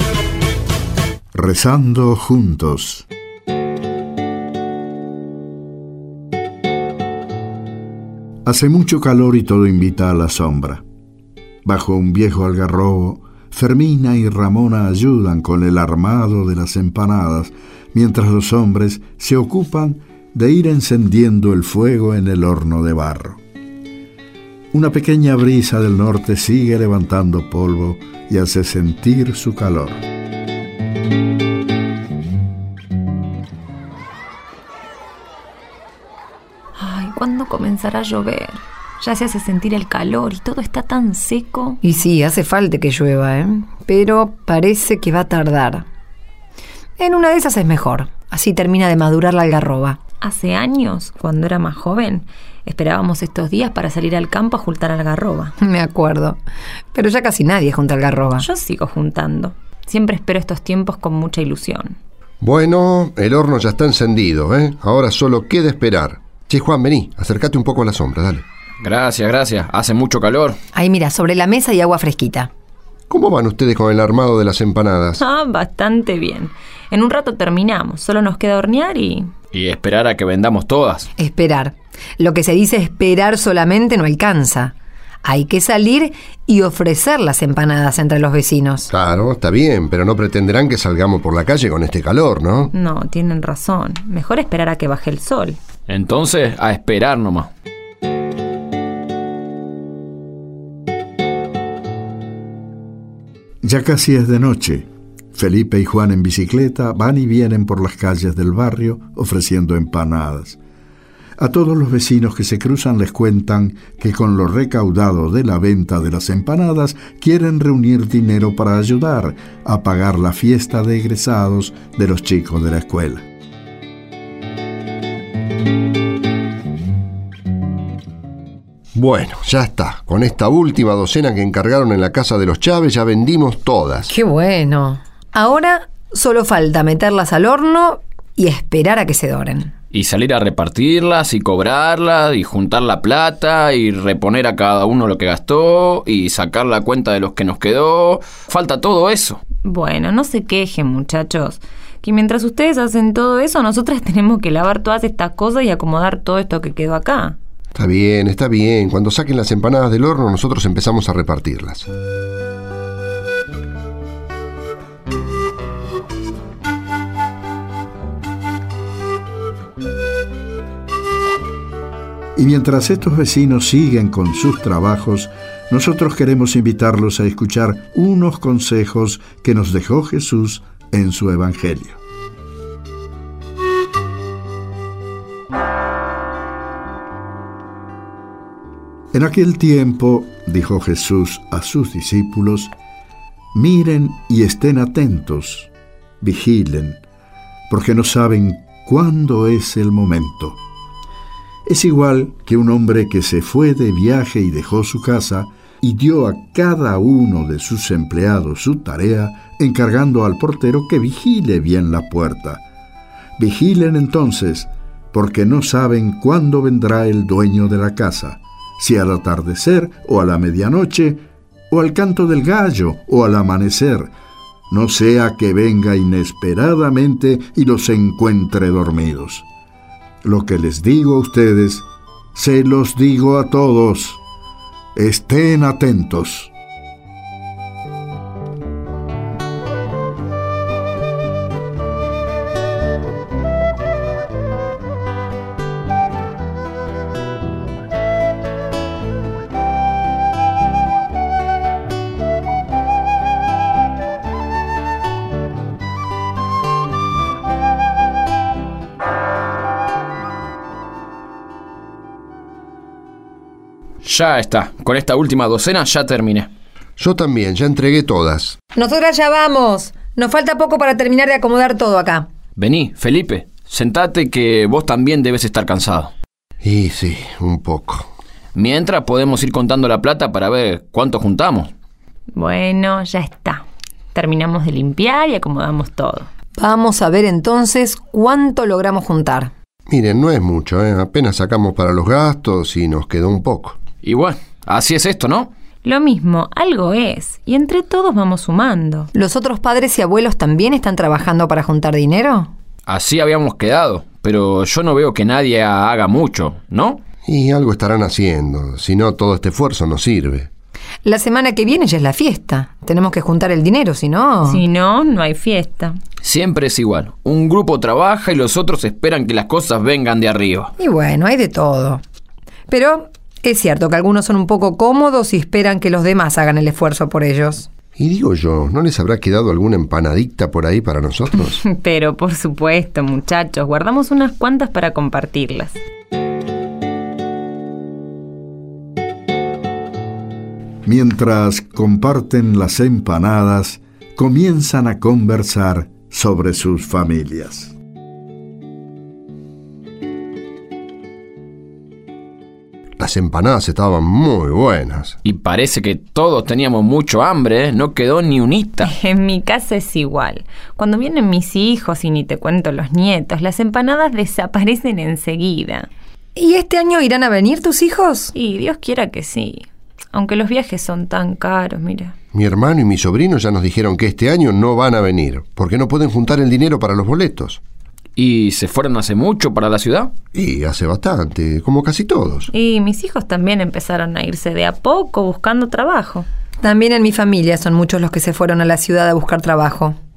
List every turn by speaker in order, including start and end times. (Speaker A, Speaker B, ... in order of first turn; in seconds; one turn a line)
Speaker A: 1.3-3.1
Speaker A: 8.5-10.8
Speaker A: 11.7-23.4
Speaker A: 24.7-30.0
Speaker B: 36.8-41.8
Speaker C: 41.8-45.9
Speaker C: 47.0-50.0
Speaker B: 50.2-55.5
Speaker C: 55.6-56.4
Speaker C: 56.9-58.5
Speaker B: 58.4-62.0
Speaker D: 62.4-68.4
Speaker E: 68.8-70.6
Speaker C: 70.8-72.5
Speaker D: 73.1-75.2
Speaker B: 75.2-79.3
Speaker E: 79.5-81.1
Speaker C: 81.2-84.7
Speaker C: 85.2-88.9
Speaker D: 88.9-92.7
Speaker B: 92.8-95.6
Speaker E: 95.9-97.5
Speaker A: 103.6-110.6
Speaker A: 111.4-123.2
Speaker D: 129.0-134.1
Speaker C: 134.1-139.7
Speaker E: 139.9-149.4
Speaker B: 149.6-157.4
Speaker D: 157.8-161.9
Speaker A: 172.4-182.0
Speaker A: 189.1-192.7
Speaker A: 193.5-197.0
Speaker A: 197.7-200.6
Speaker A: 201.7-212.6
Speaker A: 213.4-224.1
Speaker A: 224.7-229.5
Speaker A: 230.2-234.2
Speaker A: 234.9-236.5
Speaker E: 264.0-266.5
Speaker D: 267.0-268.6
Speaker C: 268.8-272.3
Speaker E: 272.6-276.1
Speaker D: 276.6-278.1
Speaker E: 278.6-281.7
Speaker B: 282.3-286.3
Speaker C: 286.6-289.5
Speaker D: 289.9-293.8
Speaker E: 294.0-295.5
Speaker B: 295.8-299.1
Speaker C: 299.1-302.5
Speaker E: 302.9-307.0
Speaker D: 307.2-310.5
Speaker C: 311.0-314.6
Speaker B: 314.5-316.0
Speaker E: 316.2-320.7
Speaker C: 320.8-322.0
Speaker C: 322.7-327.7
Speaker D: 328.0-331.6
Speaker B: 331.6-335.8
Speaker A: 340.9-347.7
Speaker D: 353.0-355.2
Speaker E: 355.2-358.9
Speaker B: 358.9-365.9
Speaker C: 366.4-368.3
Speaker B: 368.4-372.1
Speaker D: 372.3-377.6
Speaker E: 378.2-380.1
Speaker D: 380.3-382.5
Speaker B: 382.5-386.3
Speaker C: 386.6-390.0